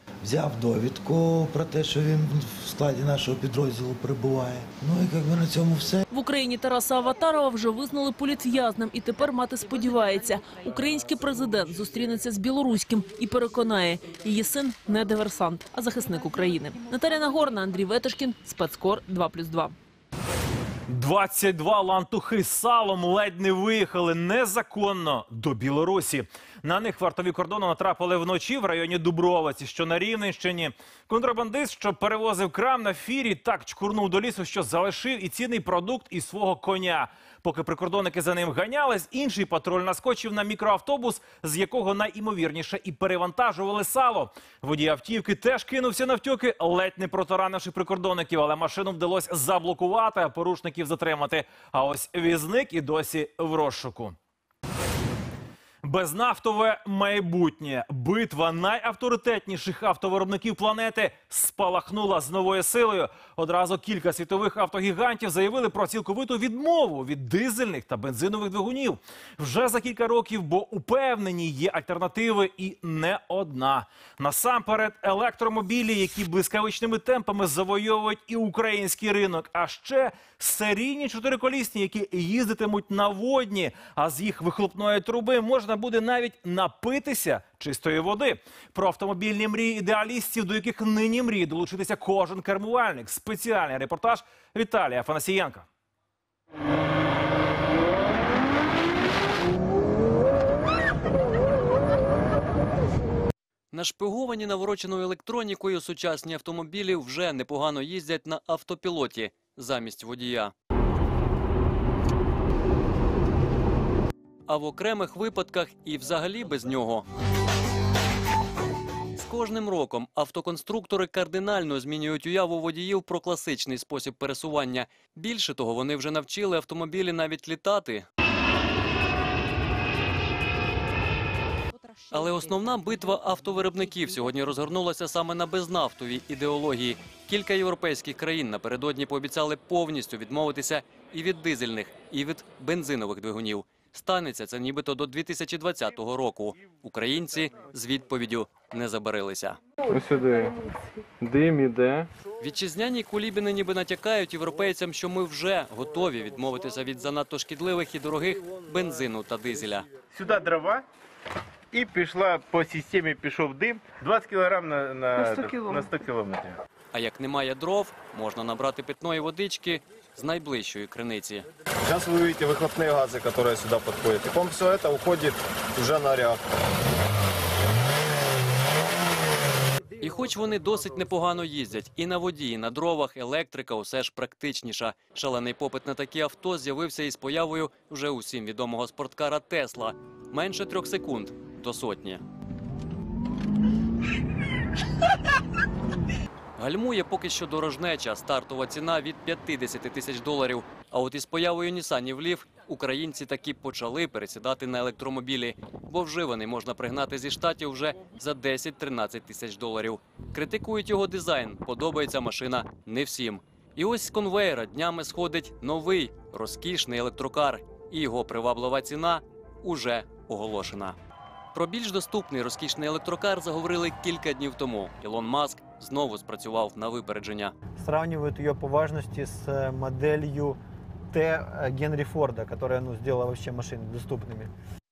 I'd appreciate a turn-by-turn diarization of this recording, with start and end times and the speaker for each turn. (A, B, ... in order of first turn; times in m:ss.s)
0:00.2-0:06.0 A
0:06.1-0:19.8 B
0:20.9-0:54.2 C
0:55.8-1:35.6 C
1:43.7-1:50.5 D
1:54.5-1:57.0 D
1:59.2-2:08.0 D
2:12.1-2:29.6 D
2:32.4-2:39.9 D
2:40.1-2:40.8 E
2:41.7-2:46.5 E
2:46.9-2:51.4 D
2:51.9-2:56.4 F
3:00.0-3:12.2 D
3:16.6-3:41.0 D
3:41.5-3:47.5 D
3:47.8-3:50.6 G
3:51.1-3:54.5 G